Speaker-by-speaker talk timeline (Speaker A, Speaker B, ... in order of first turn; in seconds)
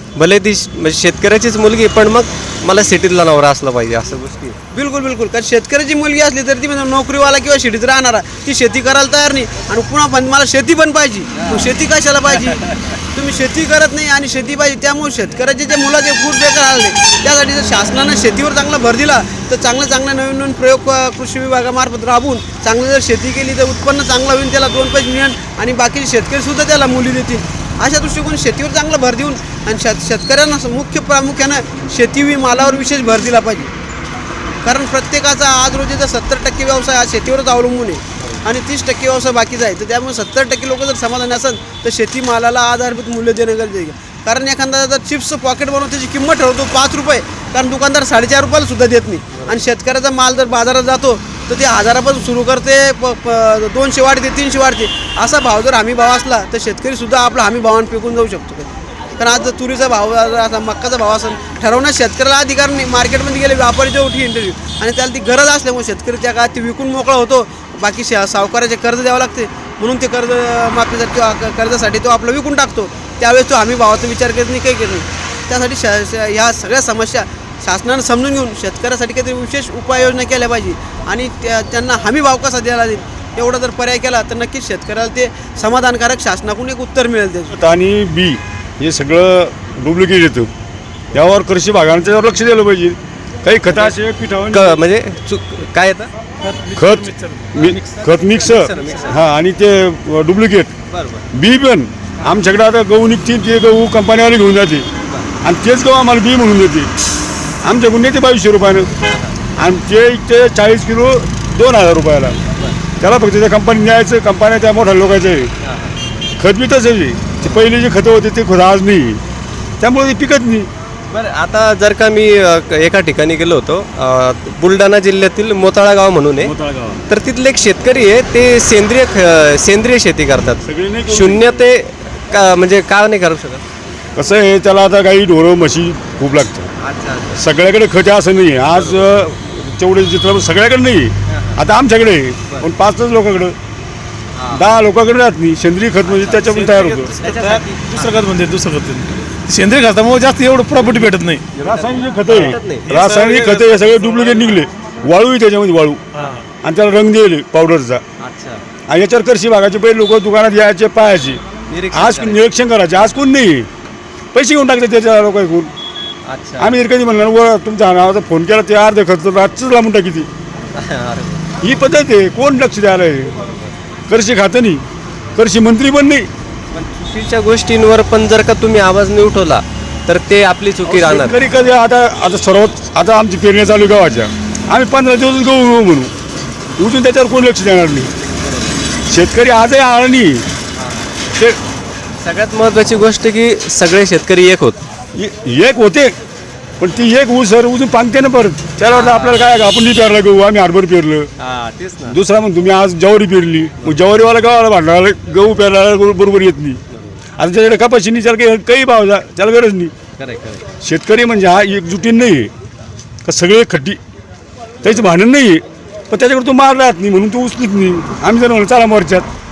Speaker A: 0.1-4.6, 11.3-11.7, 12.4-13.0, 93.7-93.9, 94.5-96.1, 97.6-99.2, 100.9-101.2, 105.0-105.3, 109.0-109.3, 115.6-116.0, 121.1-126.5, 127.1-133.6, 136.8-137.4, 138.7-139.2, 141.3-141.6, 144.3-144.6, 146.0-148.1, 151.6-152.9, 158.2-158.6, 161.7-162.4, 166.2-166.8, 170.7-171.5, 173.4-173.7, 176.7-181.4, 188.3-188.8, 190.8-191.1, 192.2-194.8, 198.9-199.4, 201.4-202.2, 206.9-207.2, 210.2-210.6
Speaker B: 4.7-33.7, 34.6-87.5
Speaker C: 87.5-90.5, 91.1-94.8, 96.7-100.7, 101.3-104.8, 105.4-106.9, 107.6-108.9, 109.5-112.4, 113.0-115.5, 116.4-119.2, 119.8-120.7, 126.4-127.0, 130.6-131.6, 134.2-136.7, 137.3-143.6, 144.5-147.1, 151.5-156.1, 156.6-158.0, 158.9-163.7, 164.3-165.7, 166.6-170.3, 171.6-173.5, 174.1-176.3, 180.8-186.1, 186.8-188.1, 189.1-190.4, 195.1-196.1, 196.8-201.3, 202.1-206.8, 207.4-209.9, 210.8-212.5, 213.2-214.0, 214.8-219.3
Speaker D: 96.4-98.0, 146.6-151.4, 152.8-154.5, 156.1-156.4